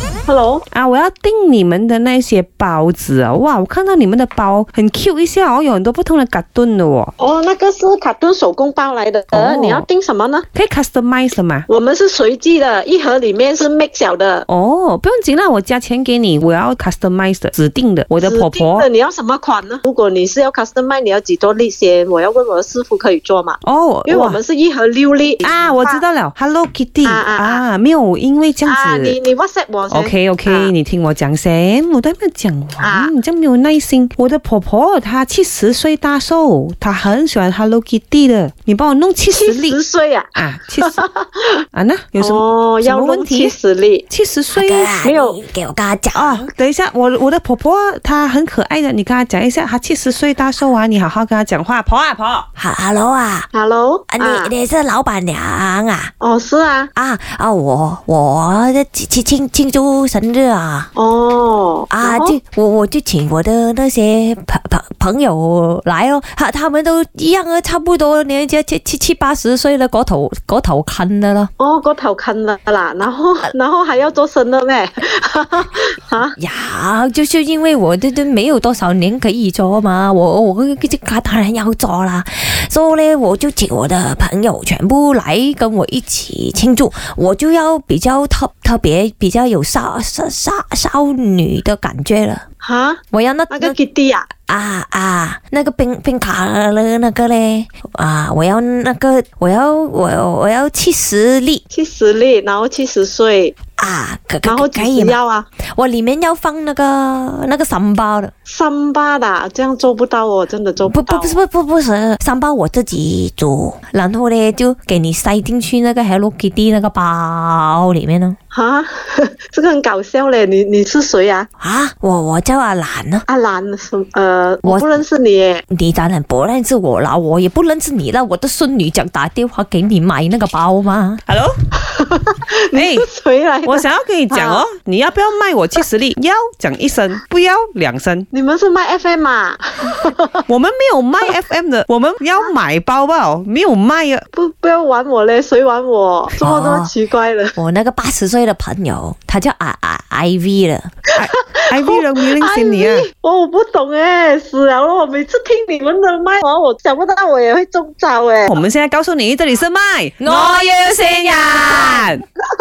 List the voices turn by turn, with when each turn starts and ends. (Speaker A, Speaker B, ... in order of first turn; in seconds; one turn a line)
Speaker A: 0.3-0.7
Speaker B: 0.7-7.1
Speaker A: 7.2-10.5
Speaker B: 9.3-9.9
Speaker B: 10.5-11.7
Speaker A: 11.7-14.5
Speaker B: 14.5-18.9
Speaker A: 18.2-26.1
Speaker B: 23.6-24.4
Speaker B: 25.4-29.2
Speaker A: 27.0-27.6
Speaker A: 28.6-30.7
Speaker B: 29.9-39.8
Speaker A: 32.8-33.1
Speaker A: 39.3-41.5
Speaker B: 40.4-41.0
Speaker B: 41.7-43.5
Speaker A: 42.2-44.0
Speaker B: 44.1-44.9
Speaker C: 44.5-46.5
Speaker A: 45.0-45.4
Speaker B: 46.1-52.5
Speaker C: 52.6-53.5
Speaker A: 53.5-54.5
Speaker C: 54.1-56.1
Speaker A: 56.2-56.9
Speaker C: 57.0-60.9
Speaker A: 61.0-62.4
Speaker C: 61.9-71.5
Speaker A: 71.6-76.3
Speaker C: 76.4-92.5
Speaker A: 92.6-94.3
Speaker C: 93.1-93.8
Speaker C: 94.5-101.6
Speaker A: 101.7-103.6
Speaker C: 103.8-108.3
Speaker A: 104.4-105.5
Speaker A: 108.5-111.4
Speaker C: 110.8-118.4
Speaker A: 118.5-121.5
Speaker C: 121.6-123.2
Speaker A: 123.3-125.6
Speaker C: 124.6-125.0
Speaker C: 125.7-131.2
Speaker B: 131.3-131.5
Speaker A: 131.8-134.7
Speaker B: 132.7-133.1
Speaker B: 133.7-138.3
Speaker A: 138.3-140.4
Speaker B: 140.5-144.3
Speaker A: 144.3-147.6
Speaker C: 146.4-146.9
Speaker C: 147.6-150.9
Speaker B: 151.2-153.1
Speaker A: 151.2-158.6
Speaker B: 158.5-162.2